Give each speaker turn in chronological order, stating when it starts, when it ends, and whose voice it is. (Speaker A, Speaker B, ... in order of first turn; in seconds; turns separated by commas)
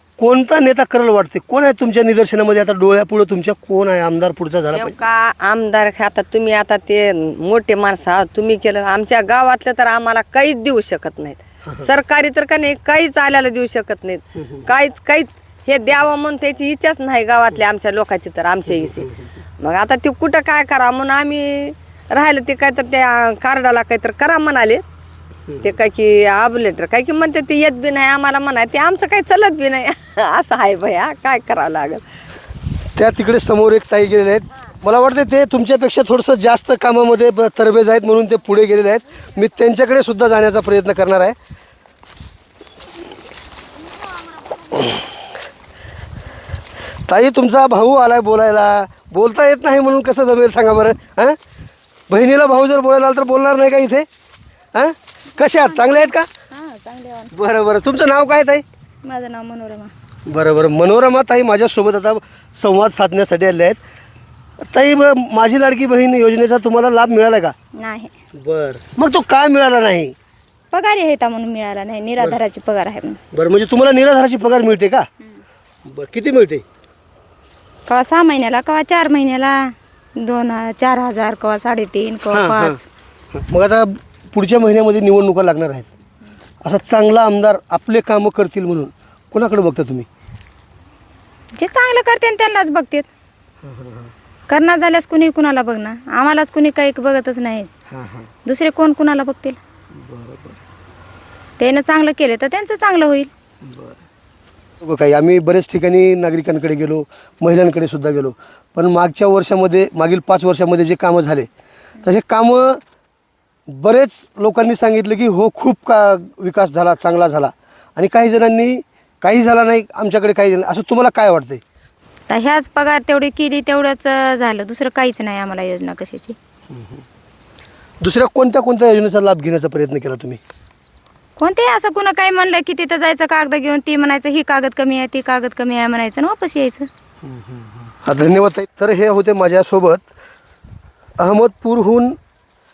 Speaker A: 0.2-4.9, Speaker B: 4.7-24.8, Speaker A: 14.4-14.6, Speaker A: 18.7-19.3, Speaker B: 25.6-32.0, Speaker A: 33.0-41.4, Speaker A: 44.7-45.0, Speaker A: 47.1-51.4, Speaker A: 52.1-54.1, Speaker A: 54.7-56.2, Speaker C: 55.4-57.3, Speaker A: 57.3-58.6, Speaker C: 59.0-59.9, Speaker A: 60.3-63.8, Speaker A: 64.6-67.5, Speaker C: 67.8-68.1, Speaker A: 68.4-70.1, Speaker C: 70.7-73.2, Speaker A: 73.3-75.1, Speaker A: 75.8-76.6, Speaker C: 77.9-82.8, Speaker A: 82.3-82.8, Speaker A: 83.3-85.9, Speaker A: 86.6-90.1, Speaker C: 91.6-93.1, Speaker A: 93.6-94.1, Speaker C: 94.5-97.7, Speaker A: 97.9-98.3, Speaker C: 98.4-99.6, Speaker A: 99.9-100.6, Speaker C: 101.6-103.3, Speaker A: 103.6-104.0, Speaker A: 104.8-111.5, Speaker A: 112.0-112.8, Speaker A: 113.7-121.6, Speaker C: 122.3-126.3, Speaker A: 126.7-127.0, Speaker A: 128.0-130.4, Speaker C: 131.4-136.9, Speaker A: 137.2-140.0, Speaker A: 141.2-142.2